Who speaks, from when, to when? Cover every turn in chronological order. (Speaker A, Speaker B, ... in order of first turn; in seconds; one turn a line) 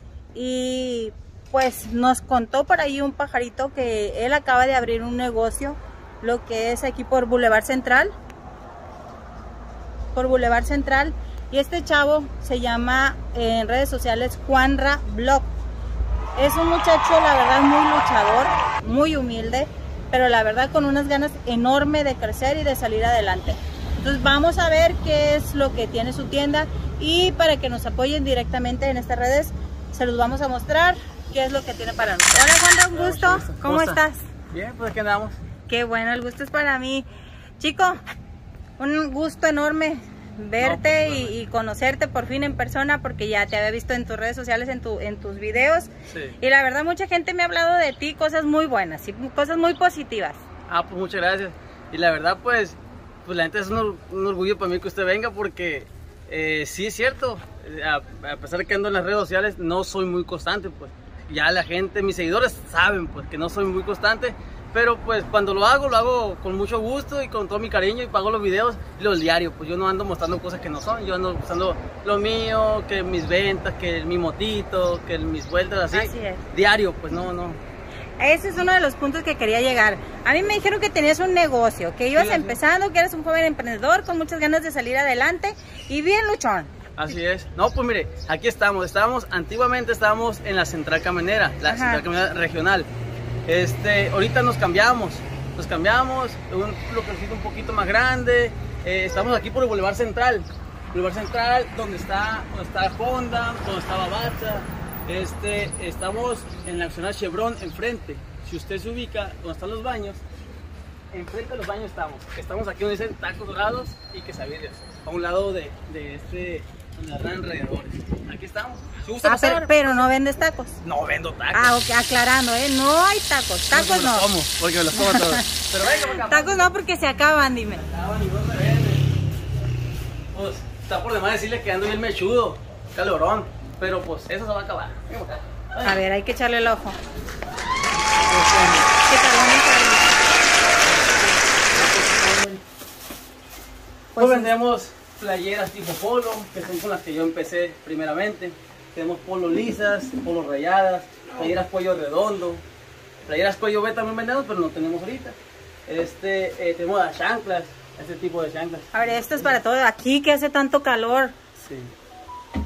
Speaker A: 0.3-8.1
Speaker A: 10.1-15.5
Speaker A: 16.4-34.2
Speaker B: 32.4-35.4
Speaker A: 35.7-37.1
Speaker A: 37.6-38.0
Speaker A: 38.8-45.9
Speaker B: 40.6-41.3
Speaker B: 46.1-46.3
Speaker A: 46.4-50.4
Speaker B: 50.7-77.6
Speaker A: 75.9-76.4
Speaker A: 78.2-86.7
Speaker B: 82.1-82.6
Speaker B: 87.0-92.9
Speaker A: 91.7-92.0
Speaker B: 93.5-110.2
Speaker B: 111.1-120.0
Speaker A: 119.2-120.8
Speaker B: 120.8-121.8
Speaker A: 121.5-124.3
Speaker B: 123.7-126.7
Speaker A: 124.9-125.5
Speaker A: 126.1-127.8
Speaker B: 127.7-129.1
Speaker B: 130.3-136.0
Speaker A: 135.8-137.0
Speaker B: 138.2-138.9
Speaker A: 139.0-140.2
Speaker B: 140.8-142.6
Speaker A: 144.1-144.5
Speaker B: 144.2-152.6
Speaker B: 153.2-158.9
Speaker A: 158.9-161.3
Speaker B: 161.6-161.9